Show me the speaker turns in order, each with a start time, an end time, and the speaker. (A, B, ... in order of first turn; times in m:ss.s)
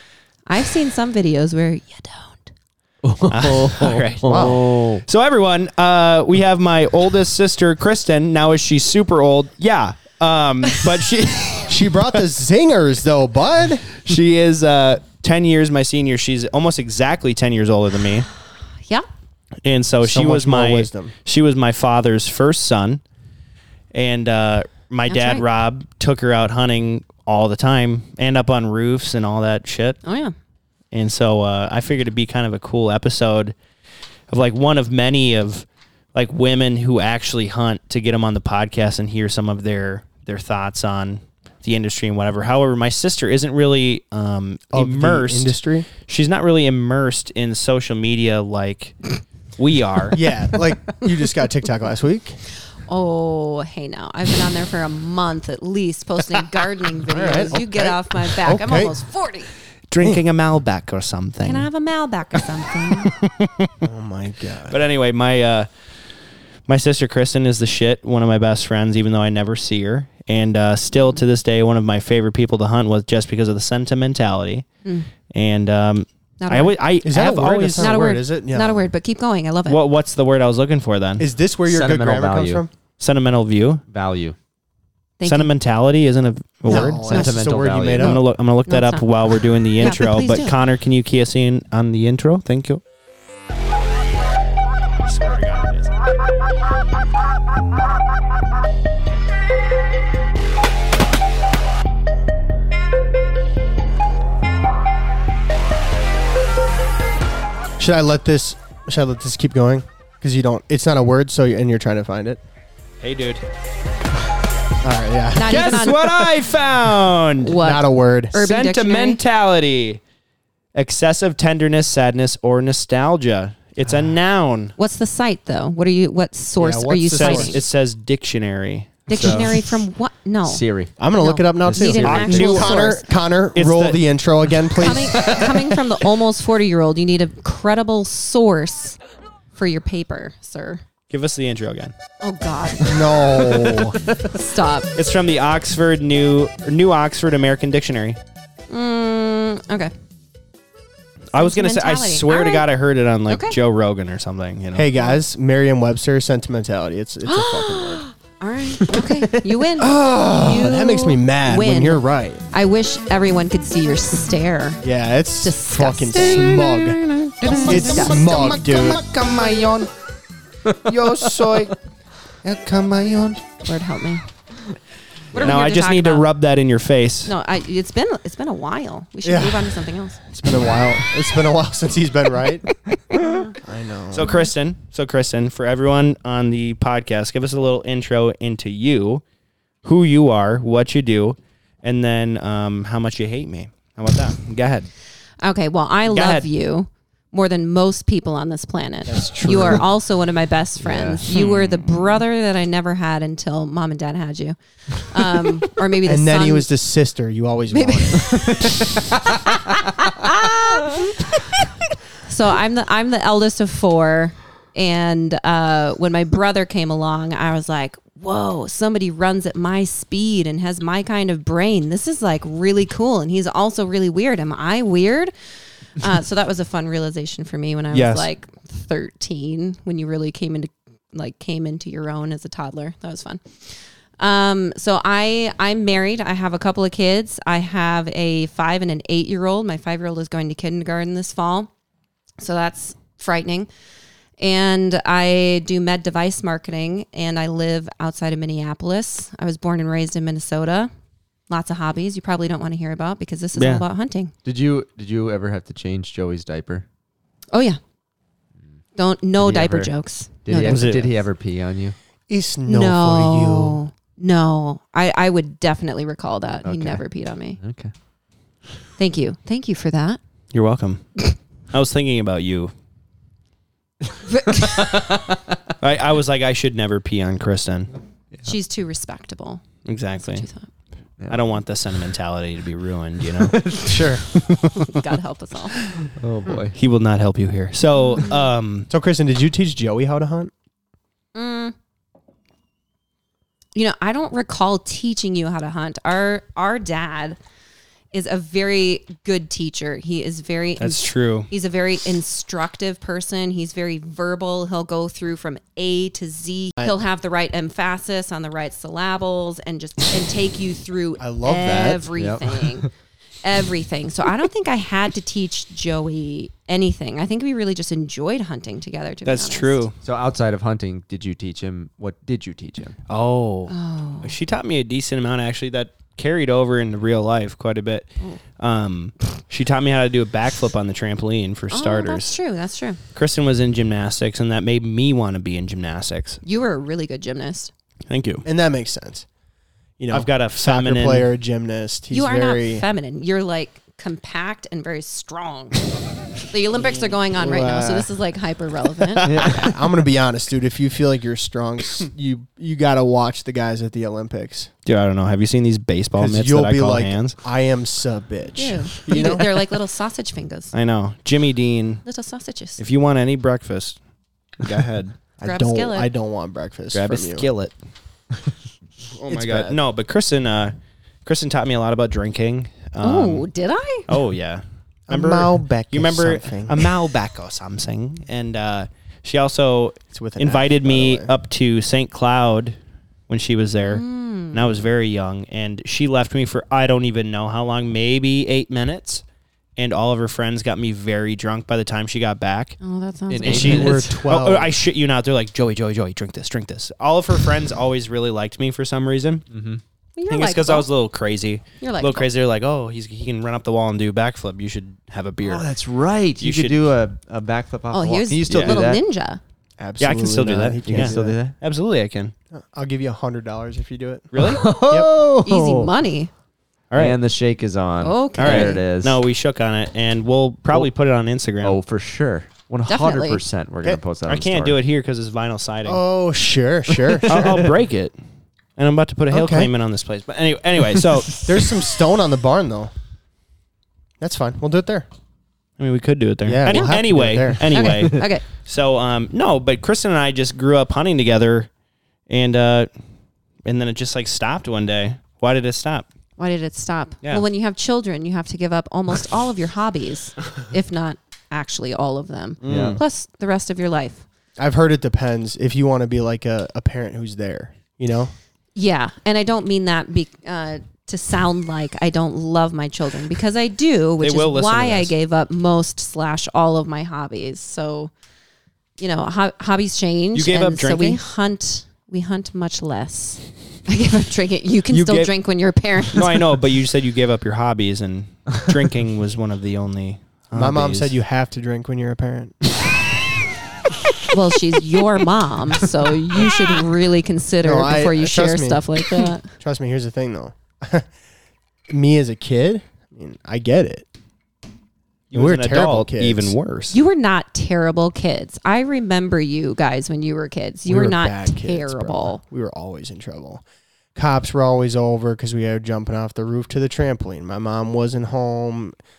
0:00.5-0:02.5 A
0:03.0-0:05.0 B
0:03.3-0:12.0 C
0:04.2-0:04.6 D
0:11.6-0:13.9 D
0:14.0-0:18.3 C
0:19.6-0:23.0 C
0:20.0-0:21.1 D
0:23.9-0:30.0 C
0:25.1-0:25.4 A
0:30.0-0:30.3 A
0:30.9-0:33.6 C
0:34.3-0:50.3 C
0:44.7-0:45.9 D
0:50.1-0:52.4 D
0:52.8-0:59.5 A
0:57.0-0:59.0 D
0:59.9-1:01.7 C
1:01.4-1:03.1 A
1:02.3-1:03.7 C
1:03.8-1:04.8 D
1:04.7-1:05.7 C
1:06.7-1:14.6 C
1:10.9-1:11.2 A
1:15.3-1:17.9 C
1:16.4-1:16.8 A
1:17.0-1:18.9 D
1:17.8-1:19.8 A
1:19.7-1:21.2 C
1:21.2-1:22.7 D
1:21.6-1:22.6 B
1:23.0-1:23.8 C
1:23.9-1:24.4 B
1:25.2-1:25.5 A
1:25.2-1:27.2 C
1:26.6-1:28.2 D
1:26.7-1:27.3 A
1:27.1-1:28.2 B
1:28.0-1:32.8 C
1:28.7-1:29.0 A
1:29.8-1:30.6 A
1:35.0-1:35.9 C
1:47.8-1:52.4 D
1:53.0-1:53.4 C
1:54.8-1:55.9 D
1:55.3-1:56.3 A
1:55.5-1:57.6 C
1:57.4-1:59.2 A
1:57.5-1:58.4 D
1:58.3-2:00.0 C
2:00.7-2:04.7 C
2:04.8-2:07.6 A
2:06.6-2:07.6 D
2:07.2-2:09.3 C
2:09.1-2:10.6 A
2:09.1-2:09.7 B
2:10.4-2:10.9 B
2:11.0-2:15.3 D
2:11.2-2:13.1 A
2:11.7-2:12.6 B
2:11.9-2:13.0 C
2:13.5-2:14.0 C
2:14.8-2:19.0 A
2:15.1-2:15.8 B
2:19.5-2:20.8 A
2:21.1-2:21.9 C
2:22.2-2:23.6 A
2:22.8-2:24.0 D
2:24.2-2:24.9 A
2:24.9-2:28.2 C
2:28.7-2:29.9 A
2:31.3-2:34.9 C
2:31.4-2:32.7 A
2:33.3-2:33.6 A
2:34.7-2:38.0 D
2:37.2-2:44.8 A
2:39.8-2:42.4 D
2:44.8-2:49.0 D
2:45.4-2:46.6 A
2:46.2-2:49.9 C
2:47.4-2:48.7 A
2:50.7-2:51.8 C
2:52.4-2:53.4 C
2:53.6-2:54.2 A
2:55.3-2:57.3 C
2:55.3-2:56.3 A
2:57.2-3:00.2 A
2:59.2-3:02.8 D
3:03.5-3:04.3 D
3:04.1-3:09.2 C
3:04.2-3:04.5 A
3:09.8-3:14.9 C
3:15.4-3:26.7 A
3:16.1-3:16.5 C
3:19.1-3:19.9 D
3:20.8-3:21.2 B
3:21.3-3:22.2 C
3:26.0-3:28.4 D
3:27.7-3:28.7 A
3:28.2-3:29.0 B
3:29.4-3:31.3 A
3:32.2-3:45.3 A
3:46.0-4:01.7 A
3:47.9-3:48.3 D
4:02.4-4:03.7 A
4:04.4-4:10.9 A
4:11.5-4:14.3 A
4:13.5-4:13.8 C
4:14.4-4:16.8 B
4:17.5-4:17.8 A
4:19.0-4:20.9 A
4:19.4-4:19.9 B
4:20.4-4:22.0 B
4:20.6-4:21.2 C
4:22.3-4:23.8 D
4:22.6-4:27.6 A
4:26.6-4:27.0 B
4:27.6-4:27.9 B
4:29.0-4:30.2 A
4:30.5-4:32.7 C
4:34.2-4:34.9 A
4:34.6-4:35.3 B
4:35.8-4:37.9 C
4:38.4-4:39.6 A
4:39.8-4:40.5 C
4:40.2-4:40.7 A
4:41.3-4:43.6 C
4:43.3-4:44.2 B
4:43.8-4:44.2 D
4:44.3-4:45.0 C
4:44.8-4:45.8 A
4:46.1-4:46.8 B
4:46.7-4:48.9 C
4:48.9-4:50.5 D
4:51.3-4:51.7 A
4:53.7-4:57.4 A
4:58.1-5:12.9 A
5:00.8-5:01.5 C
5:11.2-5:12.1 D
5:12.2-5:12.9 B
5:13.4-5:19.8 A
5:19.2-5:19.9 C
5:20.0-5:23.0 B
5:23.1-5:32.4 C
5:23.7-5:24.3 A
5:31.7-5:33.0 A
5:33.1-5:36.4 C
5:36.4-5:37.7 A
5:38.1-5:38.4 C
5:38.4-5:39.2 D
5:40.0-5:42.8 D
5:40.1-5:41.3 C
5:42.1-5:45.8 A
5:46.4-5:49.3 A
5:47.3-5:48.1 D
5:49.2-5:49.7 C
5:49.2-5:49.7 B
5:49.4-5:54.7 D
5:54.8-5:57.3 C
5:56.1-5:59.5 D
5:58.6-6:00.7 A
6:00.7-6:02.0 C
6:02.0-6:02.8 A
6:02.8-6:04.0 C
6:04.6-6:05.2 C
6:05.4-6:06.1 A
6:05.4-6:07.5 D
6:06.9-6:07.7 C
6:09.2-6:09.8 D
6:09.2-6:13.5 C
6:13.0-6:14.1 A
6:14.1-6:22.8 C
6:15.1-6:16.9 D
6:20.1-6:21.3 D
6:23.3-6:29.2 C
6:23.8-6:24.8 A
6:29.8-6:32.8 C
6:32.8-6:33.8 A
6:33.3-6:34.2 B
6:33.4-6:39.4 C
6:33.5-6:34.7 D
6:39.5-6:39.8 B
6:40.2-6:40.9 A
6:40.3-6:45.7 C
6:41.8-6:42.3 A
6:45.4-6:49.0 B
6:46.4-6:46.8 C
6:47.9-6:49.4 A
6:48.5-6:48.8 C
6:49.8-6:51.4 D
6:50.0-6:52.3 C
6:50.8-6:51.5 B
6:52.5-6:55.2 D
6:54.3-6:54.7 C
6:54.4-6:55.7 B
6:55.4-6:56.3 A
6:56.9-6:57.2 C
6:57.0-6:59.2 B
6:58.0-6:58.8 A
6:58.4-7:01.8 C
7:01.6-7:04.8 B
7:02.9-7:03.4 A
7:04.3-7:06.0 C
7:05.8-7:07.6 D
7:07.0-7:07.7 B
7:07.2-7:08.1 C
7:08.8-7:11.4 C
7:09.3-7:09.7 D
7:11.4-7:12.9 D
7:14.2-7:15.1 D
7:15.8-7:21.7 C
7:16.4-7:17.9 D
7:17.7-7:18.4 A
7:22.3-7:22.9 C
7:23.6-7:26.0 C
7:26.4-7:34.2 A
7:32.6-7:33.0 C
7:32.6-7:33.0 B
7:34.6-7:38.3 D
7:38.7-7:48.1 A
7:44.2-7:45.1 C
7:49.0-7:56.5 A
7:50.3-7:51.2 C
7:54.9-7:55.3 C
7:56.1-8:01.1 C
8:00.5-8:02.6 D
8:04.3-8:09.5 A
8:07.6-8:09.0 D
8:09.5-8:11.1 D
8:11.9-8:14.1 D
8:15.3-8:17.0 C
8:15.3-8:16.5 D
8:16.9-8:22.4 A
8:20.9-8:23.6 D
8:24.1-8:28.9 D